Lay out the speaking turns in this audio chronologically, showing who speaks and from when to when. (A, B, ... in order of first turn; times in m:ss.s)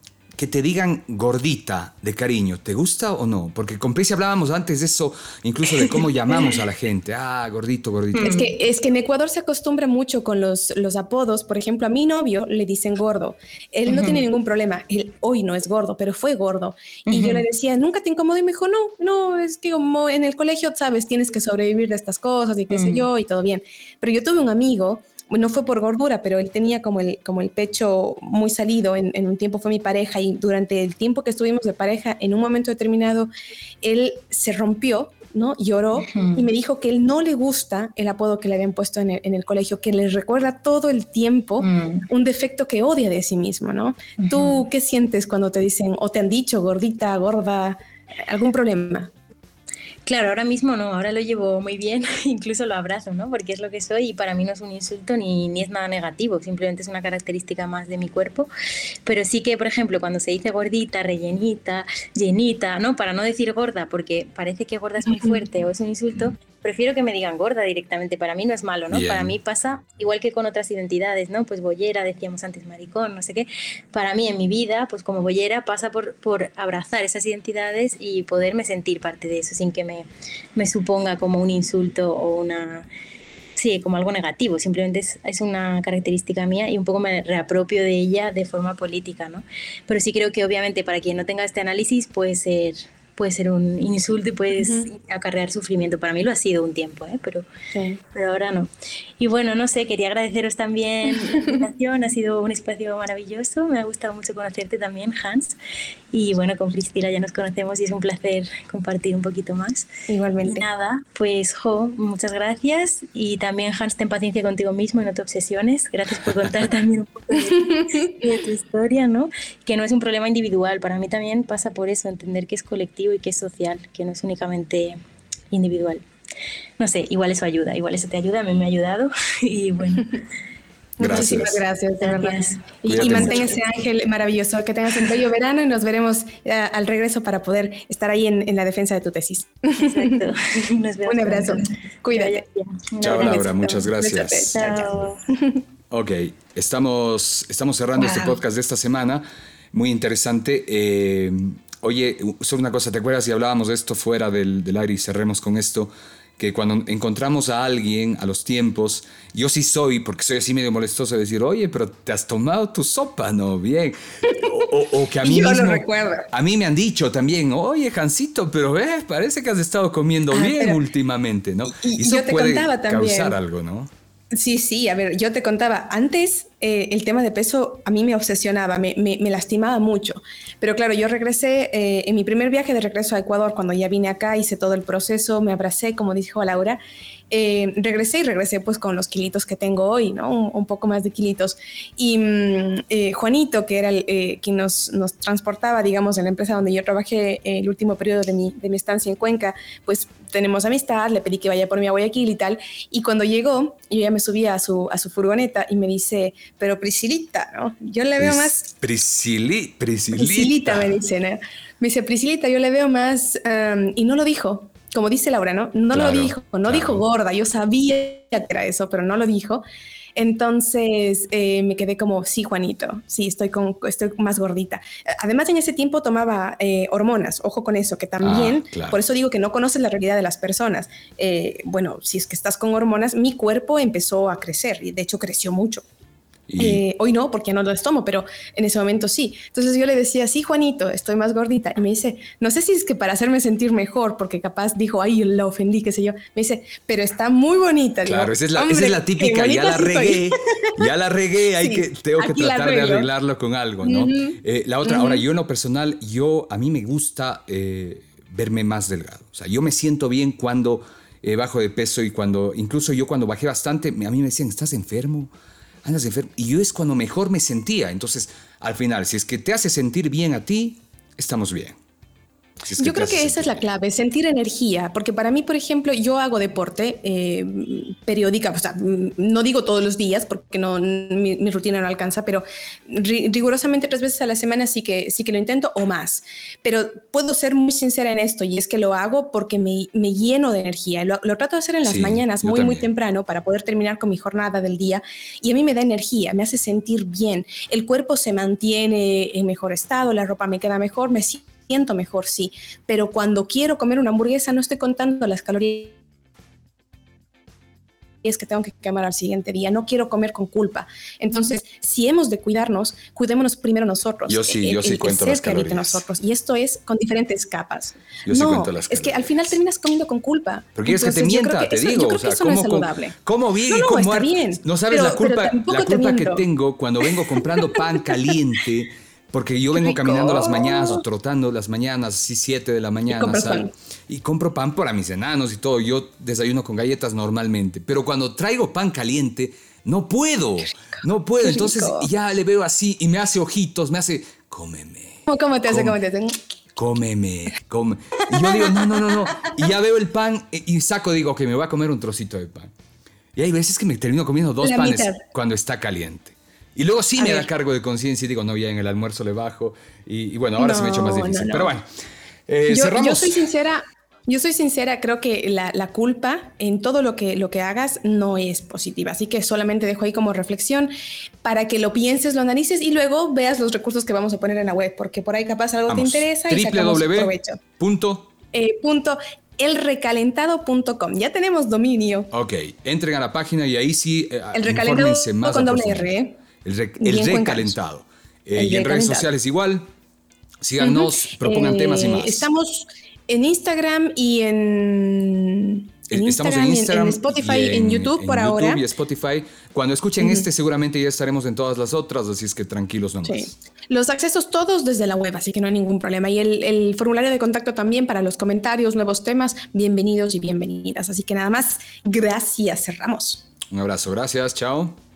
0:00.4-0:08.4 A
0:08.2-0:08.5 B
0:08.2-0:33.3 C
0:13.9-0:14.2 B
0:17.1-0:17.4 B
0:22.7-0:23.1 B
0:33.8-0:49.1 C
0:36.1-0:36.5 B
0:41.6-0:42.1 B
0:44.2-0:44.6 B
0:50.1-0:58.5 B
0:59.1-1:22.9 B
1:05.1-1:05.4 C
1:08.9-1:09.4 A
1:23.6-1:37.5 B
1:34.6-1:34.9 C
1:37.7-1:38.0 C
1:38.1-1:38.7 B
1:39.2-1:45.6 B
1:41.3-1:41.6 C
1:46.1-1:49.9 B
1:50.1-1:50.7 C
1:50.4-2:05.0 B
1:57.5-1:58.1 C
2:05.5-2:06.0 B
2:06.8-2:10.2 B
2:11.0-2:11.6 A
2:11.0-2:20.2 C
2:11.1-2:11.4 B
2:12.0-2:13.4 B
2:12.9-2:13.6 A
2:19.8-2:23.6 B
2:21.1-2:22.4 C
2:23.0-2:24.7 A
2:23.0-2:25.6 C
2:24.6-2:25.2 B
2:25.9-2:53.9 A
2:28.0-2:28.3 C
2:45.2-2:46.3 C
2:50.3-2:50.8 C
2:51.8-2:53.4 C
2:54.3-3:28.7 C
3:28.2-3:31.0 A
3:30.2-3:39.6 C
3:35.9-3:37.0 A
3:40.2-3:55.8 C
3:48.2-3:49.0 A
3:56.5-3:56.8 A
3:56.6-4:10.9 C
4:08.1-4:25.3 A
4:11.6-4:13.1 C
4:13.8-4:15.2 C
4:25.8-4:31.8 A
4:32.6-4:33.6 A
4:32.8-5:06.0 C
4:51.8-4:52.9 A
5:08.2-5:23.1 C
5:14.3-5:16.0 A
5:18.3-5:19.3 A
5:20.8-5:46.0 A
5:23.7-5:26.4 C
5:27.0-5:27.8 C
5:29.7-5:31.0 C
5:33.1-5:33.7 C
5:41.4-5:42.1 C
5:45.3-5:46.4 C
5:46.8-5:52.7 A
5:48.4-5:49.6 C
5:53.4-6:01.9 A
5:54.6-5:55.2 C
5:57.2-5:57.5 C
6:00.6-6:01.7 C
6:02.5-6:03.4 A
6:02.7-6:10.9 C
6:11.4-6:17.6 C
6:15.9-6:18.3 A
6:18.5-6:22.3 C
6:22.3-6:26.1 A
6:24.5-6:26.4 C
6:26.6-6:29.9 A
6:27.0-6:27.8 C
6:28.6-6:29.3 C
6:30.6-6:32.5 A
6:30.8-6:38.8 C
6:36.1-6:43.6 A
6:40.2-6:40.5 C
6:43.3-6:53.4 C
6:53.7-6:55.0 A